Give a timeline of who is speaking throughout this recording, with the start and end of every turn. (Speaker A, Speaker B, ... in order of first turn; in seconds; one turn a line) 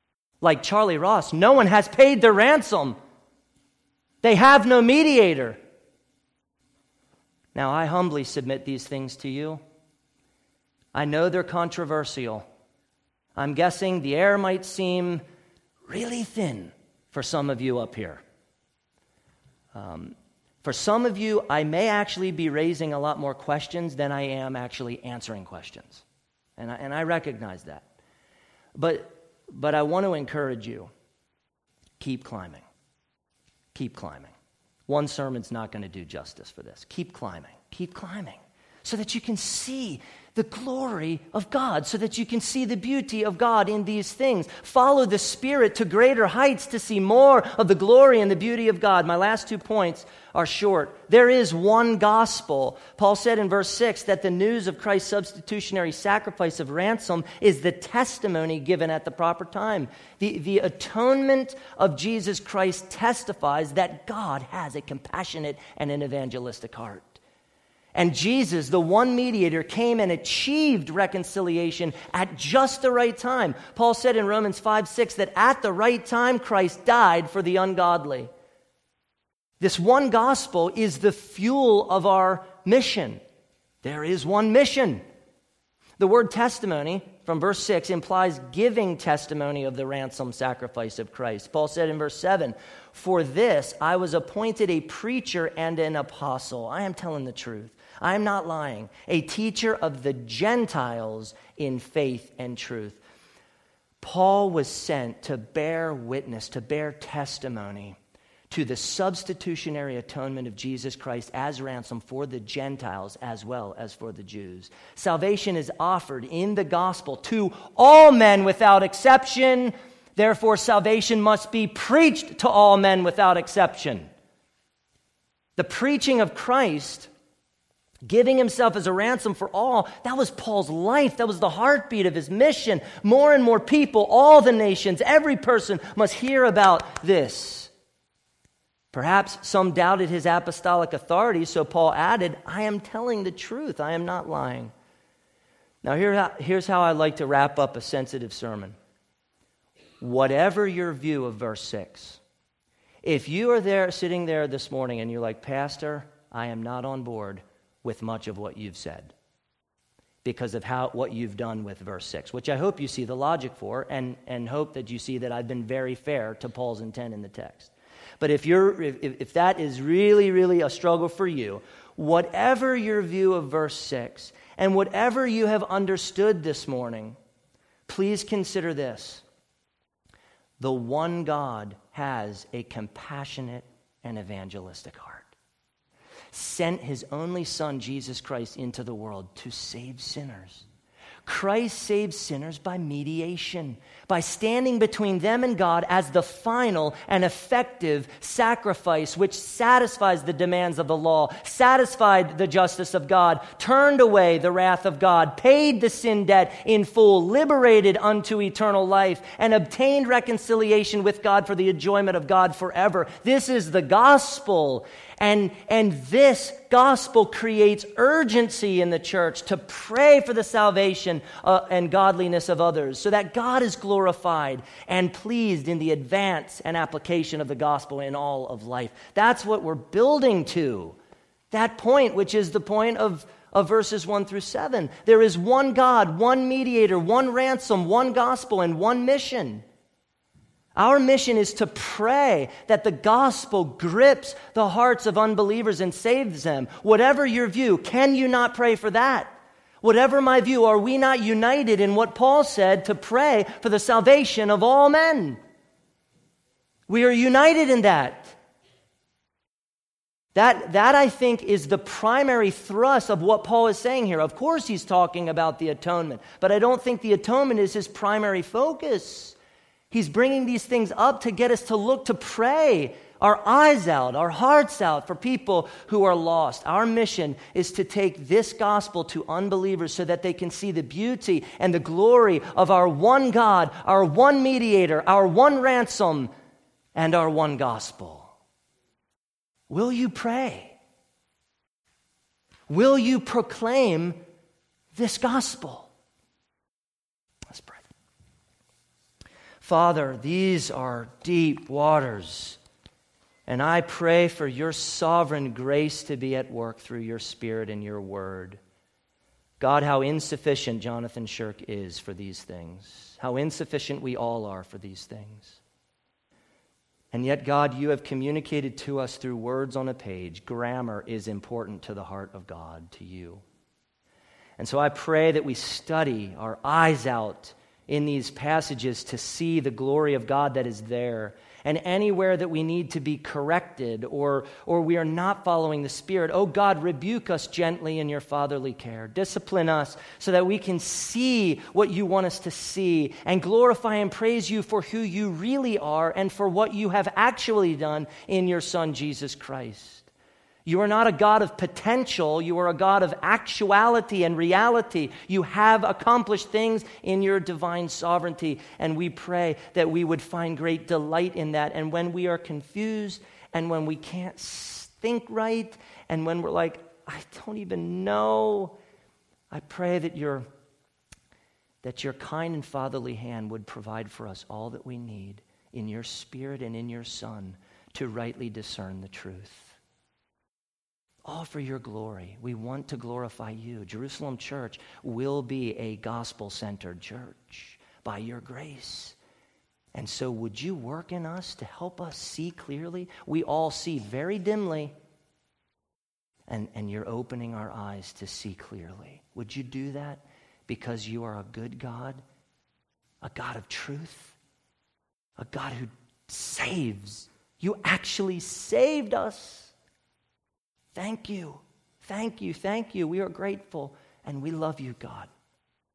Speaker A: 0.4-3.0
Speaker A: 4.2-5.6
Speaker A: 7.5-9.6
Speaker A: 10.9-12.4
Speaker A: 13.4-15.2
Speaker A: 15.9-18.2
Speaker A: 19.7-26.0
Speaker A: 26.6-27.9
Speaker A: 28.8-30.9
Speaker A: 32.0-32.6
Speaker A: 33.7-34.3
Speaker A: 34.9-67.2
Speaker A: 68.0-78.3
Speaker A: 79.6-83.2
Speaker A: 83.8-85.0
Speaker A: 86.0-103.0
Speaker A: 104.0-108.0
Speaker A: 108.5-124.1
Speaker A: 125.6-127.1
Speaker A: 128.1-137.7
Speaker A: 138.9-144.7
Speaker A: 145.8-148.8
Speaker A: 150.0-152.2
Speaker A: 153.0-159.1
Speaker A: 160.2-177.2
Speaker A: 177.9-179.2
Speaker A: 180.6-185.3
Speaker A: 186.3-190.7
Speaker A: 191.3-231.0
Speaker A: 231.5-239.6
Speaker A: 240.8-255.4
Speaker A: 256.9-258.4
Speaker A: 260.4-269.4
Speaker A: 269.9-286.3
Speaker A: 286.9-288.3
Speaker A: 289.7-290.8
Speaker A: 292.7-294.2
Speaker A: 294.9-295.9
Speaker A: 297.5-297.8
Speaker A: 299.6-302.6
Speaker A: 303.5-308.6
Speaker A: 309.6-315.6
Speaker A: 317.1-323.4
Speaker A: 324.6-350.1
Speaker A: 350.7-368.8
Speaker A: 369.5-370.4
Speaker A: 371.8-379.8
Speaker A: 381.3-389.2
Speaker A: 389.9-394.9
Speaker A: 396.5-402.2
Speaker A: 403.2-404.4
Speaker A: 405.4-409.7
Speaker A: 410.9-415.3